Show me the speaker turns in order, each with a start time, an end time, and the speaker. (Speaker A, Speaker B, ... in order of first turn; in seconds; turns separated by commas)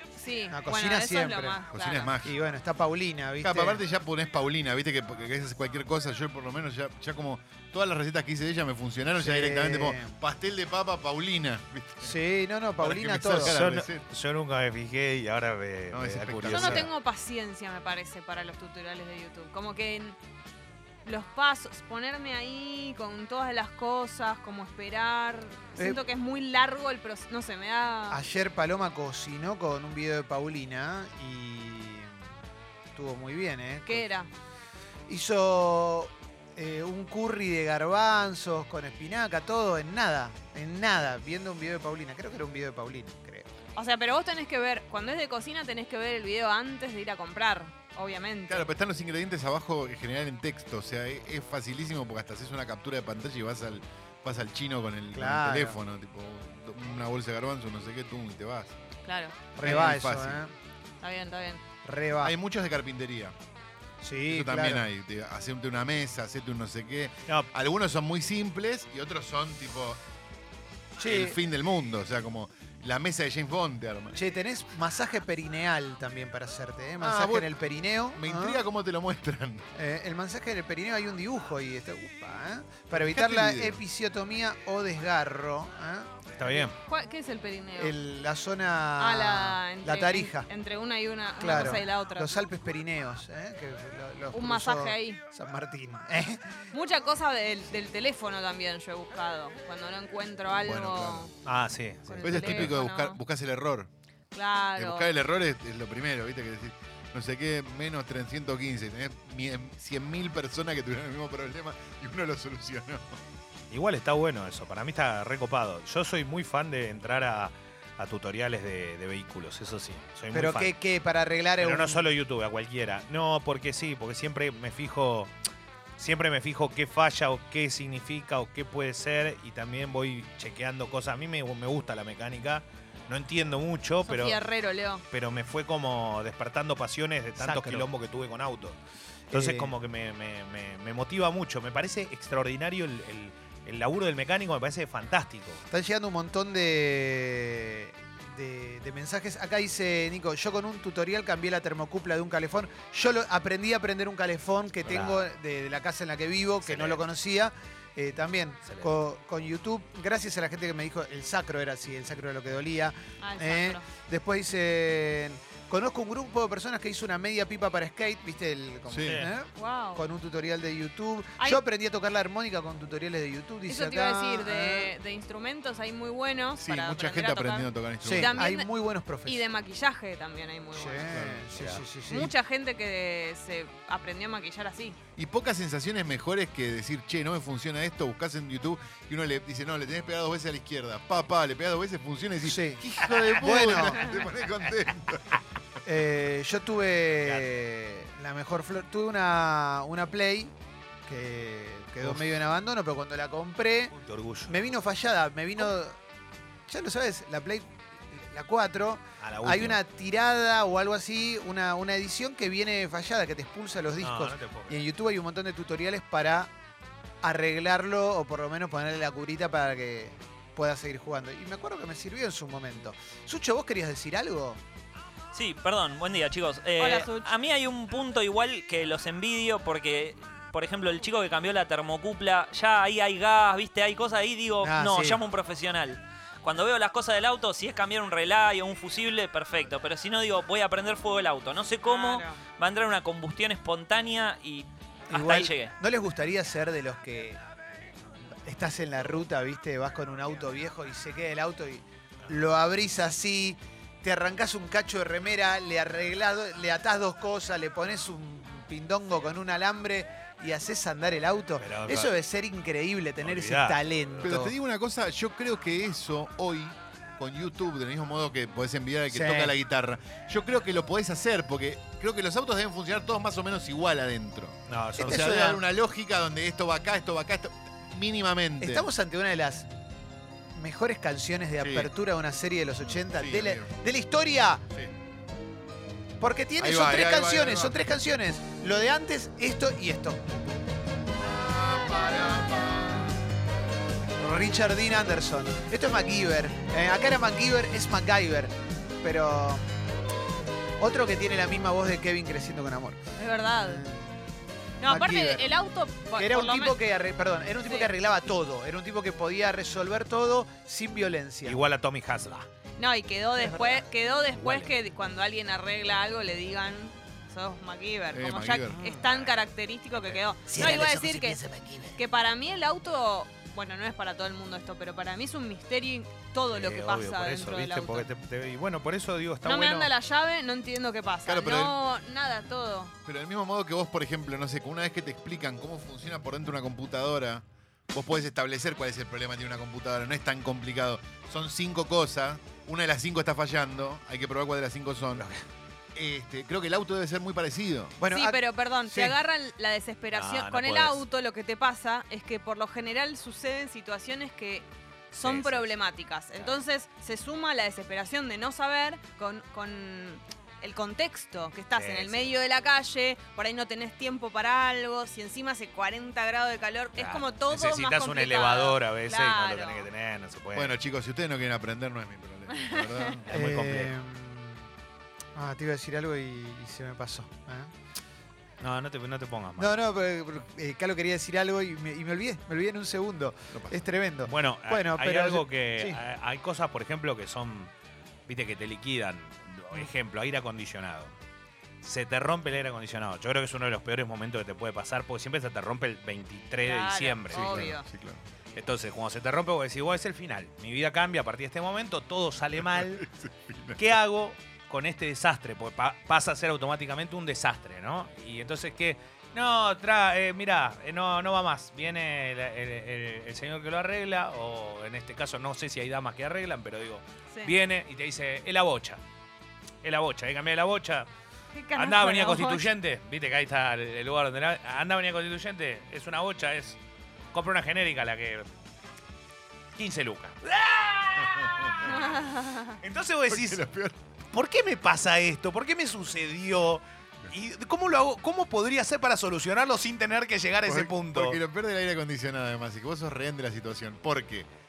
Speaker A: 0.1-2.1, Speaker B: 0.5-1.6, Speaker C: 1.7-2.4, Speaker B: 2.2-3.8, Speaker C: 3.4-12.2, Speaker B: 9.2-10.2, Speaker B: 12.0-13.6, Speaker C: 12.8-14.0, Speaker D: 13.4-16.9, Speaker C: 15.9-16.9, Speaker A: 16.5-20.2, Speaker A: 21.0-28.2, Speaker B: 25.8-26.0, Speaker B: 28.1-32.1, Speaker B: 32.9-34.1, Speaker A: 33.9-34.3, Speaker B: 35.1-43.5, Speaker A: 43.8-48.7, Speaker C: 48.5-58.7, Speaker B: 55.1-55.8, Speaker A: 59.0-59.4, Speaker B: 59.5-60.5, Speaker C: 59.6-60.4, Speaker A: 61.0-61.6, Speaker B: 61.8-62.3, Speaker C: 62.2-63.3, Speaker B: 64.0-64.8, Speaker C: 64.2-70.0, Speaker B: 71.0-71.4, Speaker C: 71.0-74.2, Speaker B: 74.1-78.6, Speaker C: 77.0-77.6, Speaker C: 78.1-79.7, Speaker B: 79.7-86.1, Speaker C: 82.9-83.8, Speaker D: 86.3-86.8, Speaker A: 86.5-88.0, Speaker B: 87.8-90.5, Speaker A: 89.0-92.4, Speaker B: 91.4-96.6, Speaker A: 94.3-95.2, Speaker A: 96.7-101.3, Speaker C: 100.6-101.3, Speaker D: 101.4-102.7, Speaker A: 102.1-103.2, Speaker C: 102.2-103.9, Speaker A: 104.3-105.1, Speaker C: 104.8-113.2, Speaker D: 113.7-120.7, Speaker B: 120.3-122.1, Speaker D: 121.6-125.3, Speaker D: 126.0-134.4, Speaker A: 134.1-135.0, Speaker D: 135.1-138.8, Speaker B: 137.4-137.9, Speaker B: 139.3-139.7, Speaker D: 139.3-145.6, Speaker B: 145.7-174.9, Speaker D: 154.8-155.2, Speaker D: 156.6-157.0, Speaker D: 158.6-158.9, Speaker A: 163.2-163.8, Speaker C: 168.9-169.2, Speaker D: 169.0-169.3, Speaker A: 169.6-170.0, Speaker A: 173.7-178.7, Speaker C: 176.6-178.4, Speaker B: 178.0-179.4, Speaker A: 179.2-181.1, Speaker B: 180.7-182.3, Speaker C: 181.1-181.6, Speaker D: 181.5-181.8, Speaker A: 182.1-185.0, Speaker C: 185.2-195.4, Speaker B: 192.4-192.8, Speaker B: 193.3-194.1, Speaker B: 195.8-200.5, Speaker D: 197.2-197.5, Speaker B: 201.1-203.9, Speaker D: 202.0-202.2, Speaker D: 203.9-204.5, Speaker B: 204.5-206.0, Speaker B: 206.7-216.5, Speaker D: 209.2-209.8, Speaker D: 214.0-214.8, Speaker B: 217.2-224.6, Speaker E: 225.3-245.7, Speaker A: 226.8-227.3, Speaker B: 234.6-235.2, Speaker A: 241.8-242.4, Speaker B: 245.1-247.4, Speaker B: 248.4-264.5, Speaker D: 261.6-262.1, Speaker D: 263.2-264.4, Speaker C: 264.2-278.9, Speaker B: 269.1-269.5, Speaker D: 274.7-275.3, Speaker B: 275.0-275.6, Speaker B: 278.6-279.7, Speaker B: 280.5-284.6, Speaker C: 281.6-281.9, Speaker C: 283.1-283.7, Speaker B: 286.2-290.2, Speaker C: 286.6-287.8, Speaker C: 291.3-293.0, Speaker B: 294.2-299.6, Speaker B: 300.8-303.0, Speaker A: 303.2-303.8, Speaker B: 303.6-304.2, Speaker A: 304.8-306.8, Speaker B: 304.8-305.5, Speaker B: 306.1-311.6, Speaker A: 307.6-307.9, Speaker D: 311.4-312.5, Speaker A: 312.8-321.4, Speaker B: 313.4-313.8, Speaker D: 314.3-314.7, Speaker C: 318.1-318.8, Speaker B: 318.8-319.1, Speaker B: 320.5-321.9, Speaker A: 321.9-328.1, Speaker D: 326.5-329.9, Speaker A: 329.4-332.9, Speaker C: 331.2-331.7, Speaker C: 333.1-345.2, Speaker D: 345.1-345.4, Speaker C: 345.9-347.9, Speaker B: 348.0-349.1, Speaker A: 348.1-369.9, Speaker D: 350.1-351.0, Speaker D: 355.2-355.7, Speaker D: 361.7-362.3, Speaker D: 366.9-370.7, Speaker C: 370.5-373.3, Speaker A: 372.5-373.2, Speaker D: 373.3-373.9, Speaker B: 373.3-374.7, Speaker B: 375.3-377.7, Speaker D: 378.6-379.7, Speaker B: 379.6-386.0, Speaker C: 383.5-383.8, Speaker D: 384.2-387.7, Speaker D: 388.3-391.1, Speaker D: 391.8-397.7, Speaker A: 396.6-397.9, Speaker C: 397.3-398.2, Speaker D: 398.5-403.0, Speaker C: 402.7-403.8, Speaker D: 403.8-419.0, Speaker D: 419.8-421.1, Speaker A: 421.5-422.7, Speaker D: 421.8-426.8, Speaker D: 427.3-428.5, Speaker D: 429.7-432.1, Speaker C: 431.2-432.0, Speaker A: 431.8-432.8, Speaker D: 432.8-433.6, Speaker C: 433.3-434.0, Speaker D: 434.3-441.4, Speaker C: 440.6-444.5